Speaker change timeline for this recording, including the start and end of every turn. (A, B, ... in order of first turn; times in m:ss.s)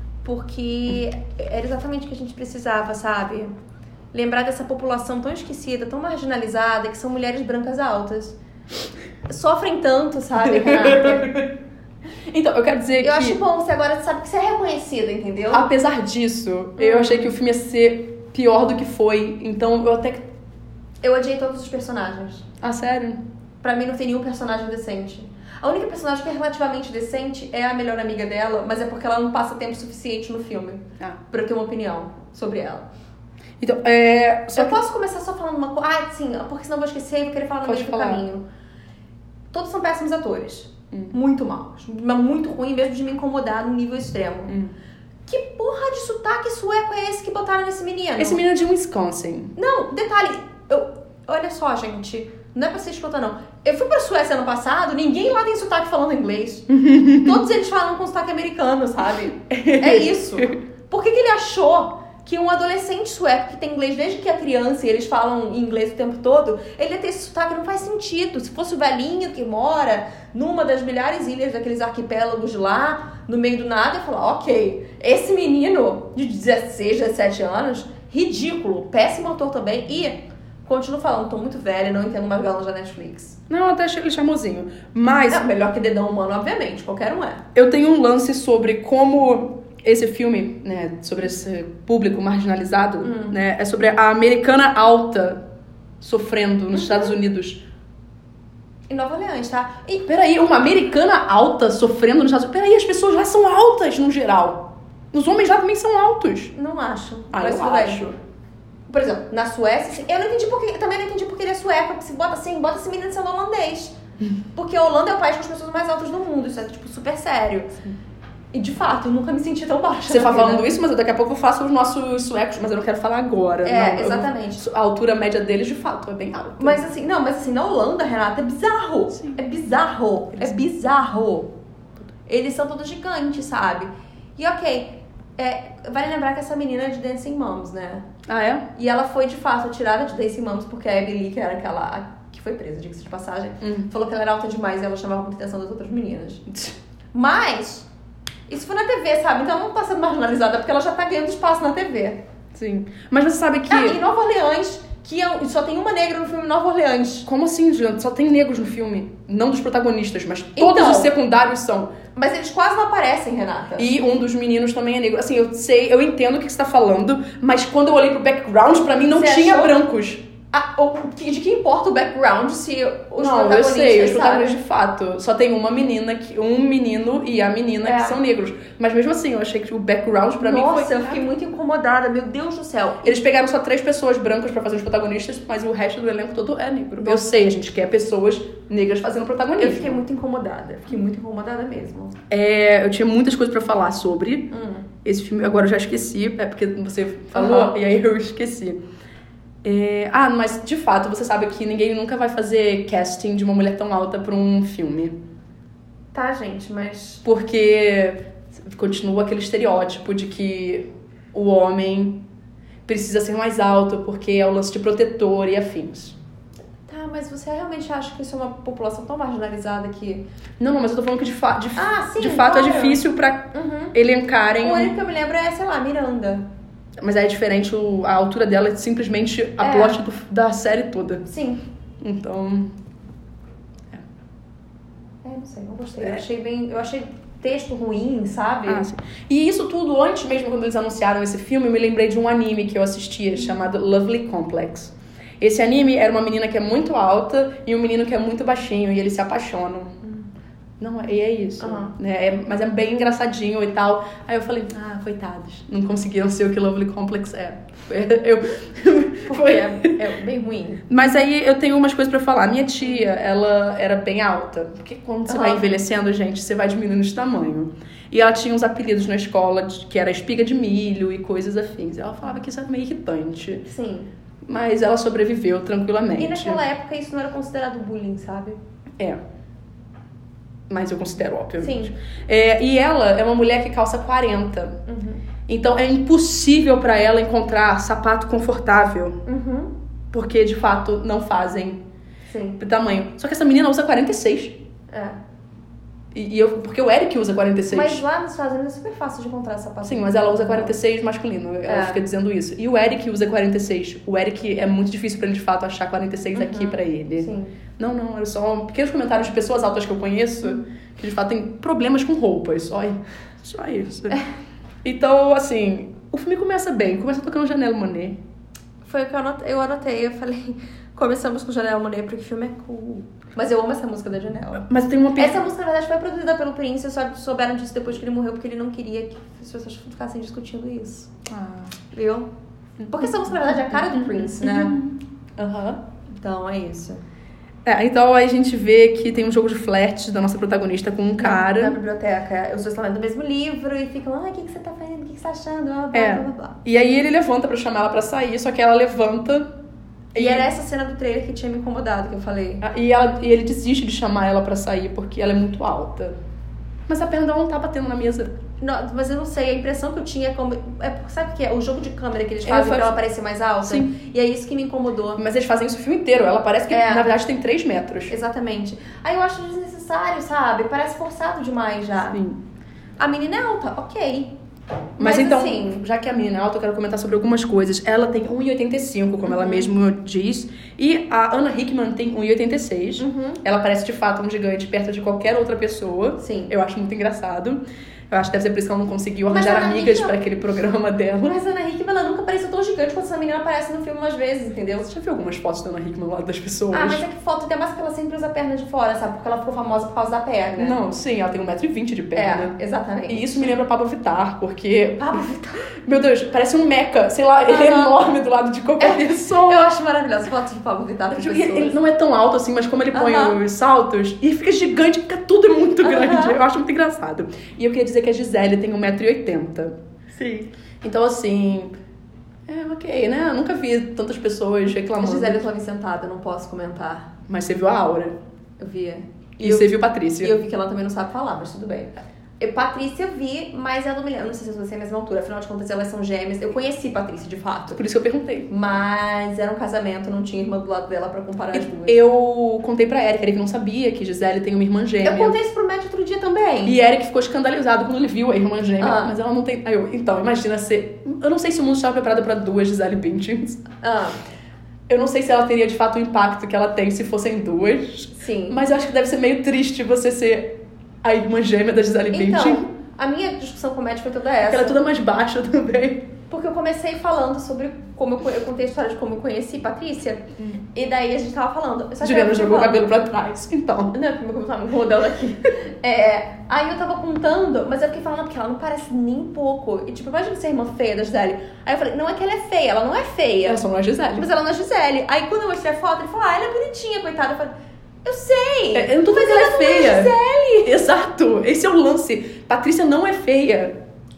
0:00.2-0:03.5 A
0:04.1-0:08.4 A
0:09.3-0:11.3 A
0:10.4-0:11.5 B
0:12.3-0:13.4 B
0:13.0-0:15.7 A
0:15.5-0:20.3 B
0:16.8-0:17.3 A
0:21.0-0:22.5 A
0:22.6-0:23.2 B
0:23.6-0:32.9 A
0:33.6-0:34.8 B
0:34.5-0:38.4 A
0:37.6-0:38.2 B
0:39.5-0:44.6 A
0:44.5-0:44.7 B
0:45.3-0:48.4 A
0:48.2-0:49.5 B
0:49.6-1:23.4 A
0:56.7-0:57.4 B
0:59.5-1:00.5 B
1:23.5-1:25.4 B
1:25.3-1:27.4 A
1:27.5-1:35.4 B
1:33.0-1:33.3 A
1:36.0-1:37.6 B
1:36.7-1:37.2 A
1:38.9-1:40.1 A
1:40.1-1:46.5 B
1:46.5-1:48.1 A
1:47.3-1:48.2 B
1:48.9-1:54.0 A
1:54.5-1:57.8 A
1:58.5-2:00.7 A
2:00.1-2:06.8 B
2:03.6-2:04.6 A
2:06.6-2:11.5 A
2:09.1-2:09.4 B
2:12.2-2:18.1 A
2:18.3-2:18.7 B
2:18.7-2:26.5 A
2:23.6-2:23.9 B
2:26.5-2:26.7 B
2:27.1-2:27.9 A
2:28.5-2:32.2 A
2:32.5-2:34.0 B
2:33.7-2:37.3 A
2:37.2-2:41.9 B
2:40.6-2:41.1 A
2:42.1-2:43.9 A
2:43.8-2:50.2 B
2:49.1-2:49.8 A
2:50.5-2:54.6 A
2:53.2-3:01.2 B
2:57.8-2:58.2 A
3:00.4-3:03.2 A
3:03.0-3:10.0 B
3:07.0-3:07.3 A
3:09.6-3:12.2 A
3:12.3-3:14.5 B
3:14.5-3:14.9 A
3:15.0-3:18.8 B
3:17.3-3:17.7 A
3:19.6-3:25.1 B
3:26.1-3:27.2 A
3:27.2-3:32.2 B
3:32.8-3:36.2 B
3:36.9-3:40.2 A
3:40.6-3:44.9 B
3:41.8-3:43.9 A
3:44.6-3:46.4 A
3:47.0-3:51.2 B
3:49.6-3:50.0 A
3:51.3-3:51.6 A
3:52.0-3:52.7 B
3:55.2-3:58.8 A
3:58.6-4:09.9 B
4:10.8-4:19.9 B
4:11.6-4:11.9 A
4:19.3-4:20.8 A
4:20.9-4:33.6 B
4:25.3-4:25.6 A
4:33.6-4:34.1 A
4:34.4-4:36.6 B
4:36.2-4:38.6 A
4:40.7-4:44.8 B
4:41.6-4:41.9 A
4:44.9-4:45.2 A
4:45.5-4:49.2 B
4:49.2-4:49.7 A
4:50.1-4:51.8 B
4:52.3-4:52.6 A
4:52.6-4:54.6 B
4:54.9-4:55.2 A
4:56.1-4:58.0 B
4:57.7-5:00.8 A
4:59.8-5:14.2 B
5:01.7-5:02.0 A
5:06.3-5:07.5 A
5:14.8-5:18.2 B
5:18.8-5:31.1 A
5:24.6-5:25.4 B
5:31.3-5:31.8 B
5:31.9-5:32.3 A
5:32.8-5:35.8 B
5:32.9-5:34.8 A
5:36.1-5:37.0 A
5:37.6-5:41.8 B
5:41.2-5:46.6 A
5:45.9-5:49.5 B
5:50.1-5:50.5 B
5:50.1-5:52.6 A
5:52.6-5:56.1 B
5:56.9-5:58.3 B
5:58.6-6:05.2 A
6:02.4-6:03.0 B
6:03.6-6:03.9 B
6:05.2-6:08.2 B
6:06.7-6:07.1 A
6:08.1-6:12.2 A
6:12.1-6:12.4 B
6:13.0-6:14.3 A
6:15.0-6:15.8 A
6:15.0-6:31.4 B
6:19.2-6:19.7 A
6:23.0-6:23.4 A
6:26.2-6:26.5 A
6:29.3-6:30.2 A
6:31.2-6:34.9 A
6:34.9-6:37.0 B
6:36.7-6:40.8 A
6:40.6-6:42.6 B
6:42.1-6:43.5 A
6:43.1-6:49.6 B
6:45.0-6:45.7 A
6:47.5-6:48.0 A
6:48.8-6:51.8 A
6:51.1-6:59.7 B
6:52.9-6:53.4 A
6:55.8-6:56.4 A
7:00.1-7:00.5 A
7:00.8-7:01.7 B
7:02.5-7:05.4 B
7:05.0-7:07.1 A
7:07.3-7:08.2 B
7:08.6-7:17.8 A
7:09.4-7:10.4 B
7:17.7-7:18.5 B
7:18.5-7:22.0 A
7:21.5-7:25.3 B
7:25.0-7:26.8 A
7:26.6-7:33.6 B
7:28.8-7:29.1 A
7:33.8-7:34.2 A
7:34.9-7:42.6 B
7:38.1-7:38.6 A
7:42.1-7:44.8 A
7:44.4-7:46.1 B
7:46.3-7:52.9 A
7:52.0-7:54.0 B
7:53.9-8:03.6 A
8:03.4-8:04.3 B
8:04.2-8:07.5 A
8:08.0-8:10.8 A
8:08.7-8:13.8 B